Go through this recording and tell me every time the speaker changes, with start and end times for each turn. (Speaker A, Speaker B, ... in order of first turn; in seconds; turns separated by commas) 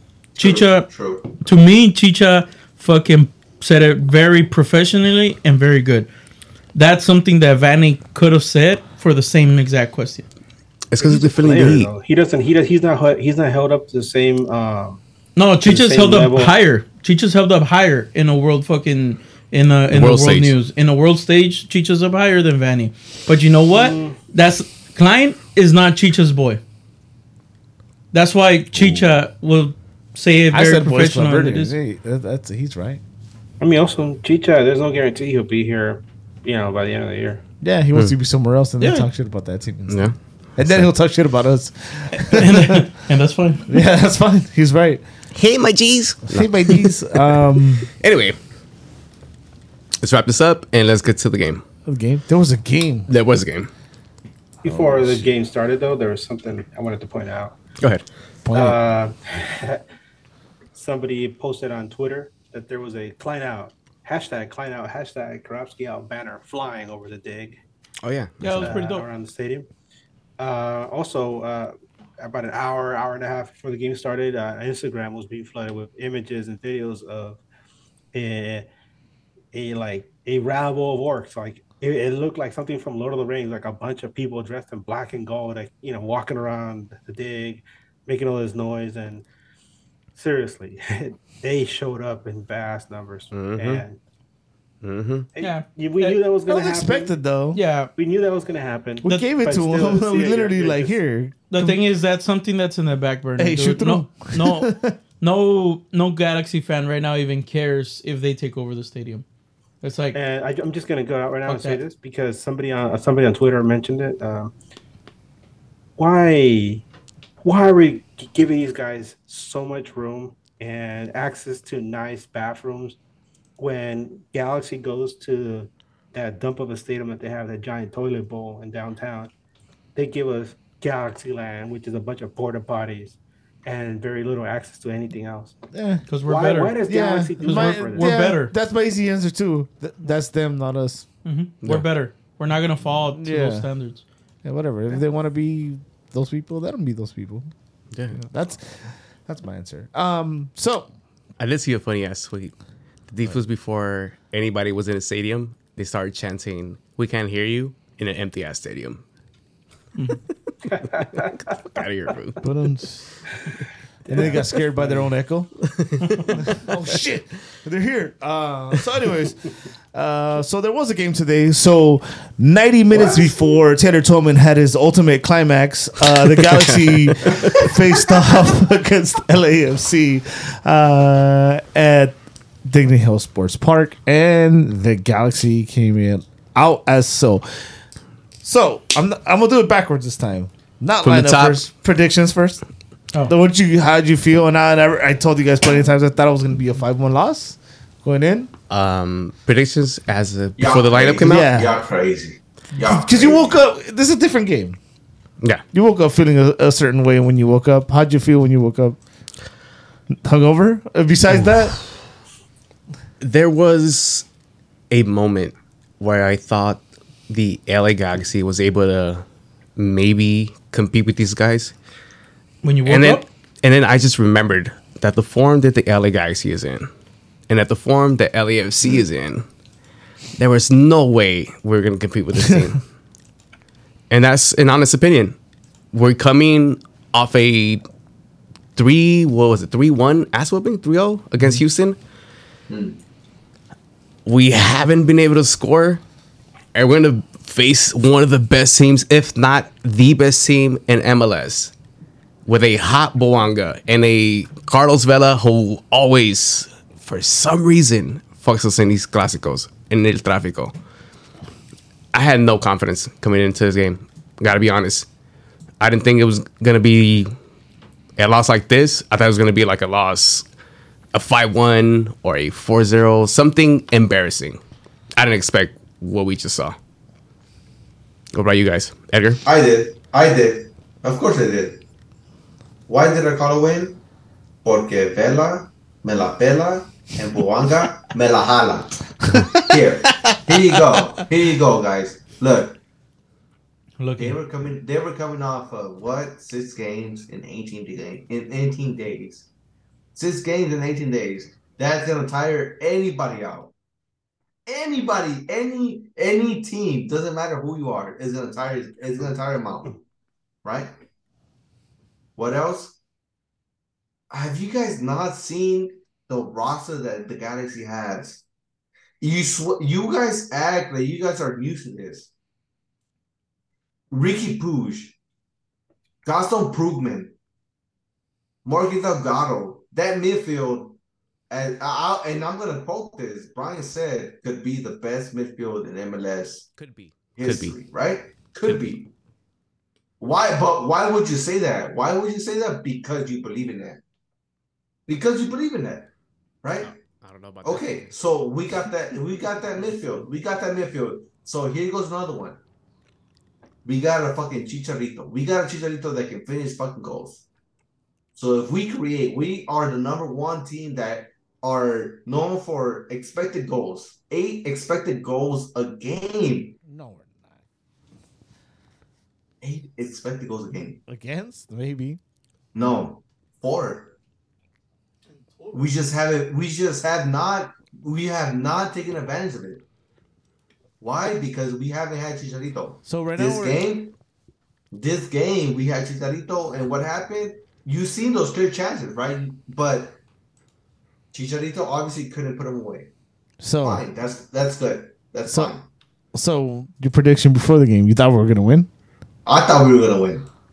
Speaker A: 0.4-0.9, Speaker B: 0.4-1.4, Speaker A: 1.4-6.1, Speaker A: 6.7-10.3, Speaker C: 10.9-11.9, Speaker D: 11.0-15.0, Speaker A: 15.4-26.6, Speaker D: 15.6-16.5, Speaker C: 19.9-20.5, Speaker D: 23.7-24.2, Speaker A: 28.1-31.7, Speaker E: 30.5-33.0, Speaker D: 33.6-37.4, Speaker E: 37.6-42.9, Speaker A: 38.8-39.1, Speaker C: 39.9-40.9, Speaker A: 42.3-43.7, Speaker E: 43.7-45.0, Speaker C: 45.4-48.4, Speaker E: 46.3-47.9, Speaker C: 50.0-51.6, Speaker E: 51.9-53.1, Speaker C: 53.1-53.7, Speaker E: 54.6-55.3, Speaker D: 54.6-57.5, Speaker E: 58.5-58.8, Speaker D: 58.5-59.8, Speaker D: 60.7-67.6, Speaker C: 68.0-68.6, Speaker A: 68.4-69.1, Speaker E: 68.4-68.7, Speaker D: 68.6-69.7, Speaker D: 70.4-77.4, Speaker D: 78.1-78.7, Speaker D: 79.5-89.2, Speaker D: 90.2-94.0, Speaker C: 93.3-93.8, Speaker C: 94.8-95.3, Speaker D: 95.4-97.2, Speaker A: 95.4-96.2, Speaker E: 96.5-97.6, Speaker A: 97.5-97.9, Speaker D: 98.0-101.0, Speaker E: 99.0-101.8, Speaker A: 101.5-104.7, Speaker E: 103.4-105.0, Speaker A: 105.2-109.2, Speaker A: 109.8-110.2, Speaker D: 110.1-114.5, Speaker A: 111.5-111.8, Speaker D: 116.0-116.8, Speaker D: 117.4-123.0, Speaker D: 123.6-129.3, Speaker D: 129.9-135.6, Speaker E: 135.7-136.0, Speaker A: 136.1-136.8, Speaker D: 136.3-138.1, Speaker E: 136.9-141.1, Speaker A: 137.4-138.5, Speaker A: 141.2-144.0, Speaker E: 143.1-143.7, Speaker E: 144.4-147.4, Speaker C: 147.9-148.2, Speaker E: 148.1-150.9, Speaker C: 151.4-152.5, Speaker C: 153.1-159.0, Speaker D: 160.7-161.3, Speaker C: 161.7-162.4, Speaker E: 162.4-163.2, Speaker D: 164.1-165.1, Speaker E: 164.1-165.6, Speaker C: 165.7-166.3, Speaker E: 166.4-187.8, Speaker C: 176.4-177.7, Speaker E: 188.4-192.6, Speaker C: 191.0-191.6, Speaker E: 193.2-198.5, Speaker C: 198.7-201.5, Speaker B: 200.6-203.6, Speaker E: 201.2-201.8, Speaker E: 202.8-204.8, Speaker E: 205.7-209.0, Speaker E: 210.1-211.8, Speaker C: 213.2-214.3, Speaker C: 214.9-219.2, Speaker C: 219.8-221.7, Speaker A: 222.6-223.2, Speaker C: 222.8-226.9, Speaker C: 227.5-229.5, Speaker C: 230.4-232.8, Speaker C: 234.1-235.4, Speaker C: 235.9-237.8, Speaker C: 238.8-242.0, Speaker B: 242.7-243.0, Speaker C: 244.3-246.0, Speaker C: 246.8-251.7, Speaker C: 252.5-260.7, Speaker C: 262.1-265.1, Speaker C: 265.8-267.4, Speaker C: 268.2-270.5, Speaker C: 271.1-274.6, Speaker C: 275.2-276.8, Speaker C: 278.3-279.4, Speaker B: 279.4-281.8, Speaker B: 282.9-284.0, Speaker B: 284.6-292.8, Speaker E: 289.2-291.2, Speaker A: 294.0-294.4, Speaker B: 294.2-299.5, Speaker B: 300.1-303.7, Speaker B: 304.7-310.0, Speaker B: 310.6-310.9, Speaker B: 312.4-313.0, Speaker B: 314.3-318.4, Speaker B: 319.2-322.3, Speaker B: 324.1-325.1, Speaker B: 326.2-327.3, Speaker B: 328.6-331.0, Speaker B: 331.5-336.7, Speaker C: 336.8-337.8, Speaker B: 337.4-339.1, Speaker B: 340.2-344.0, Speaker B: 345.1-346.1, Speaker B: 346.6-346.9, Speaker C: 346.8-348.1, Speaker B: 347.6-352.6, Speaker B: 353.9-357.4, Speaker B: 358.4-366.8, Speaker E: 366.9-367.6, Speaker B: 369.6-371.0, Speaker E: 371.1-372.2, Speaker B: 372.8-374.1, Speaker B: 375.7-379.8, Speaker B: 381.0-384.1, Speaker E: 383.1-383.8, Speaker B: 384.9-390.2, Speaker B: 391.3-393.1, Speaker E: 393.6-394.1, Speaker B: 393.8-395.9, Speaker E: 396.4-398.9, Speaker B: 399.5-400.5